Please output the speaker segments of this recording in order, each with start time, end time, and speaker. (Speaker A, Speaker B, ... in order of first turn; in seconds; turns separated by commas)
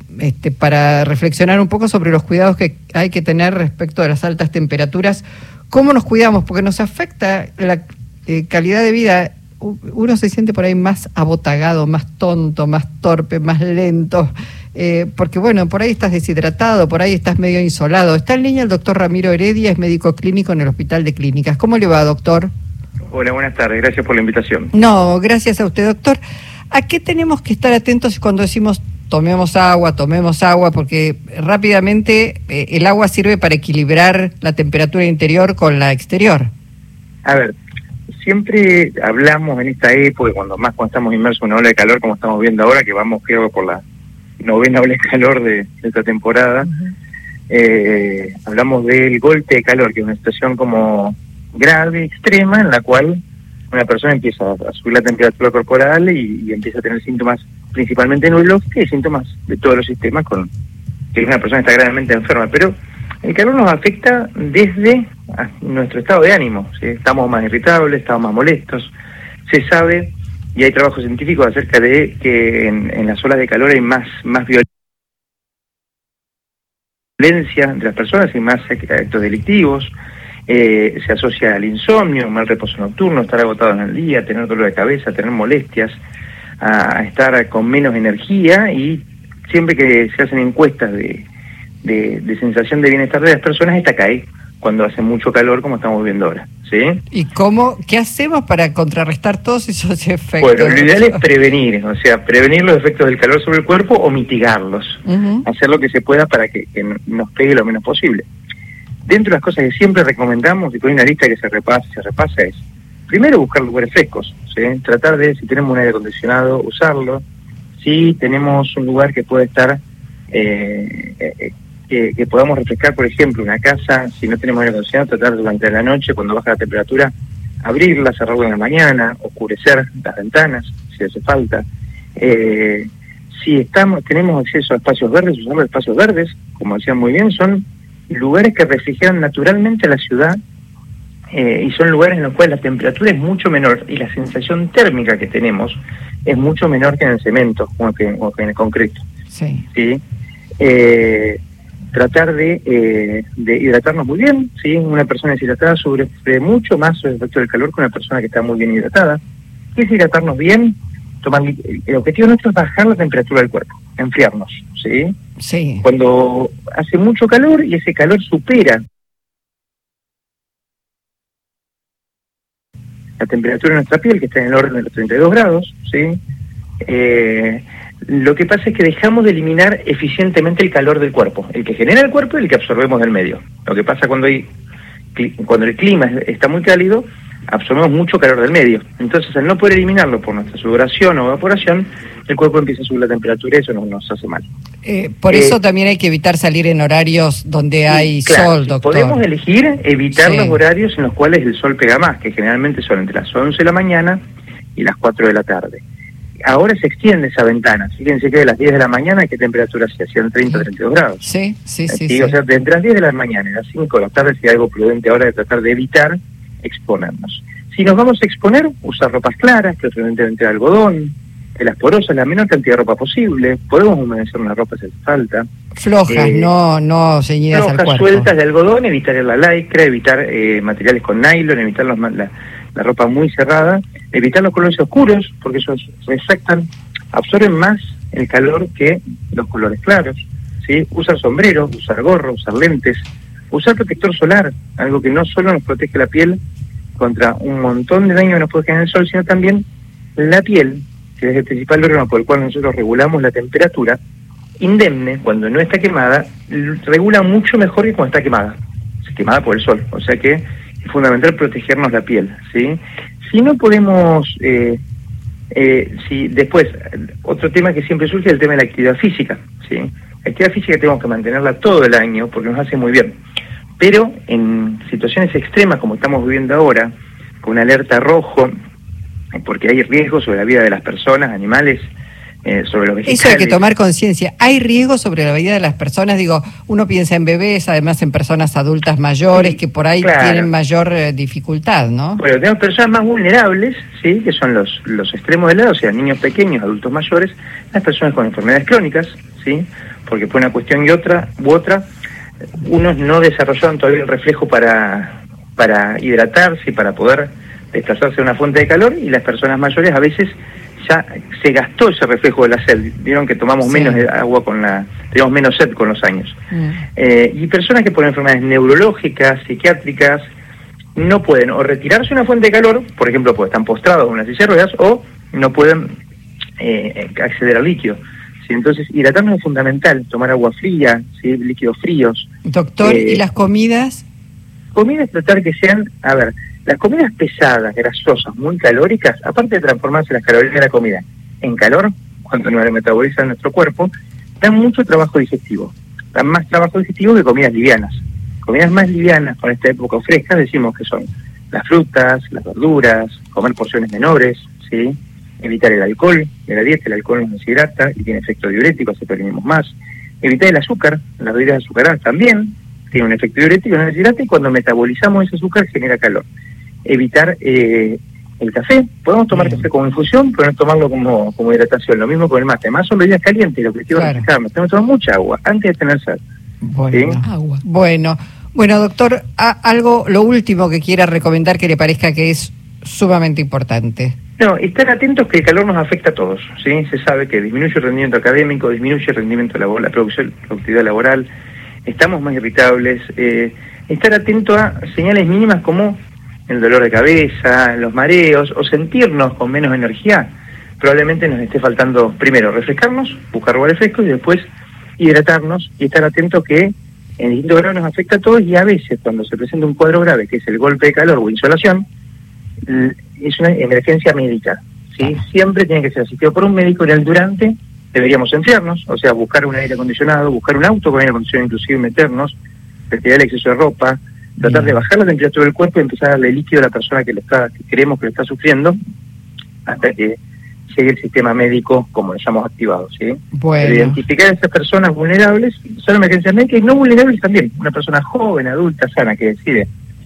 Speaker A: 0.1-22.5, Speaker B: 23.1-24.7, Speaker A: 24.7-36.5, Speaker B: 37.2-37.5, Speaker B: 38.2-43.8, Speaker B: 44.4-46.7, Speaker B: 47.5-53.2, Speaker B: 53.7-60.5, Speaker B: 61.1-68.9, Speaker B: 69.5-74.6, Speaker B: 77.2-79.9, Speaker B: 80.5-86.0, Speaker B: 86.6-91.3, Speaker B: 91.8-97.0, Speaker A: 97.1-101.2, Speaker B: 100.4-108.3, Speaker A: 105.0-105.4, Speaker B: 109.0-117.2, Speaker B: 117.8-119.8, Speaker B: 120.3-140.4, Speaker B: 141.3-149.1, Speaker A: 149.3-149.6, Speaker B: 149.7-150.0, Speaker B: 150.6-151.4, Speaker B: 151.9-159.2, Speaker B: 159.7-165.1, Speaker A: 165.4-165.8, Speaker B: 165.8-168.8, Speaker B: 173.2-176.2, Speaker B: 176.8-184.5, Speaker B: 185.1-194.5, Speaker A: 194.8-199.2, Speaker B: 195.3-195.6, Speaker B: 197.9-204.2, Speaker A: 200.1-200.6, Speaker B: 204.7-205.8, Speaker B: 206.4-211.2, Speaker A: 211.2-212.3, Speaker B: 211.9-225.4, Speaker A: 225.8-228.3, Speaker B: 226.1-226.5, Speaker B: 227.5-246.4, Speaker B: 246.9-249.6, Speaker B: 250.2-254.0, Speaker B: 254.6-264.8, Speaker B: 265.5-273.2, Speaker B: 273.8-278.5, Speaker B: 279.3-281.9, Speaker B: 282.4-283.6, Speaker A: 283.1-292.2, Speaker B: 289.3-290.5, Speaker B: 292.2-301.9, Speaker B: 302.6-316.3, Speaker A: 313.6-314.0, Speaker A: 316.5-316.8, Speaker B: 316.9-320.2, Speaker B: 320.9-325.9, Speaker B: 326.6-332.3, Speaker A: 332.5-334.0, Speaker B: 332.8-333.2, Speaker B: 334.7-343.9, Speaker B: 344.4-366.2, Speaker B: 366.8-376.2, Speaker A: 369.3-369.6, Speaker A: 373.9-374.3, Speaker A: 376.6-384.1, Speaker B: 376.9-377.2, Speaker B: 384.4-391.3, Speaker B: 391.8-404.4, Speaker B: 405.0-411.9, Speaker B: 412.6-422.4, Speaker B: 422.9-428.8, Speaker A: 424.4-424.7, Speaker B: 429.6-439.7, Speaker A: 433.3-434.0